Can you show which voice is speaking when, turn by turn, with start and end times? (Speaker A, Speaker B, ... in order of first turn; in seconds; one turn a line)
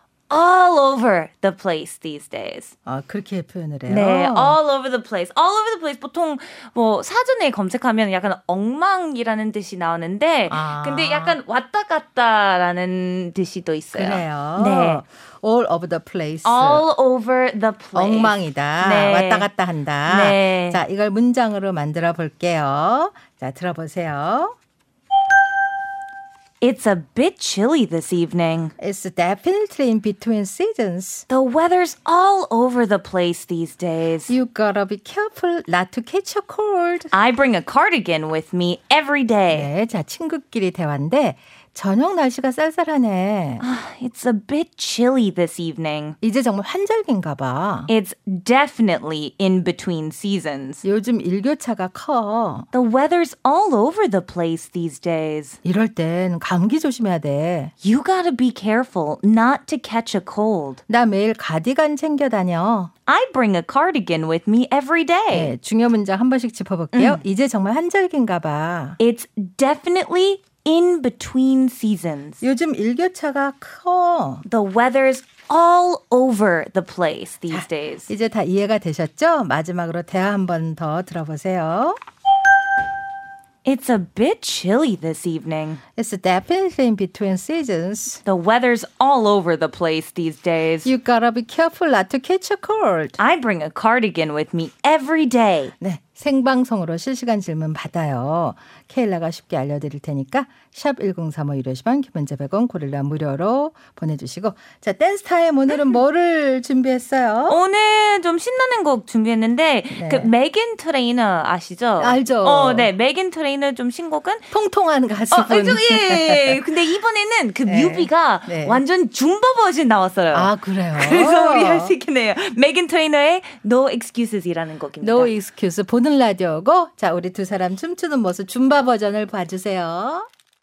Speaker A: 0.3-2.7
Speaker B: 2.9-4.6
Speaker A: 3.9-15.0
Speaker B: 10.5-11.4
Speaker B: 13.9-16.8
Speaker A: 16.4-19.5
Speaker B: 17.9-24.5
Speaker A: 20.1-20.8
Speaker A: 26.6-28.7
Speaker B: 28.8-31.2
Speaker A: 31.3-34.3
Speaker B: 34.3-37.1
Speaker A: 37.1-39.7
Speaker B: 39.5-43.6
Speaker A: 43.6-46.2
Speaker B: 46.2-47.9
Speaker A: 47.9-50.8
Speaker B: 50.8-52.7
Speaker A: 52.7-55.6
Speaker B: 55.6-57.7
Speaker A: 57.8-60.8
Speaker B: 60.9-62.9
Speaker A: 63.0-65.5
Speaker B: 65.3-69.0
Speaker A: 66.9-67.2
Speaker A: 69.0-72.4
Speaker B: 72.4-74.4
Speaker A: 74.4-78.1
Speaker B: 77.5-82.0
Speaker A: 83.6-85.8
Speaker B: 86.0-88.2
Speaker A: 88.2-90.9
Speaker B: 90.8-93.2
Speaker A: 93.2-95.7
Speaker B: 95.8-107.6
Speaker A: 105.7-105.9
Speaker A: 107.5-114.5
Speaker B: 109.9-110.3
Speaker B: 112.0-112.9
Speaker B: 114.5-116.6
Speaker A: 115.3-125.3
Speaker B: 117.6-118.8
Speaker B: 120.3-122.0
Speaker B: 125.0-130.3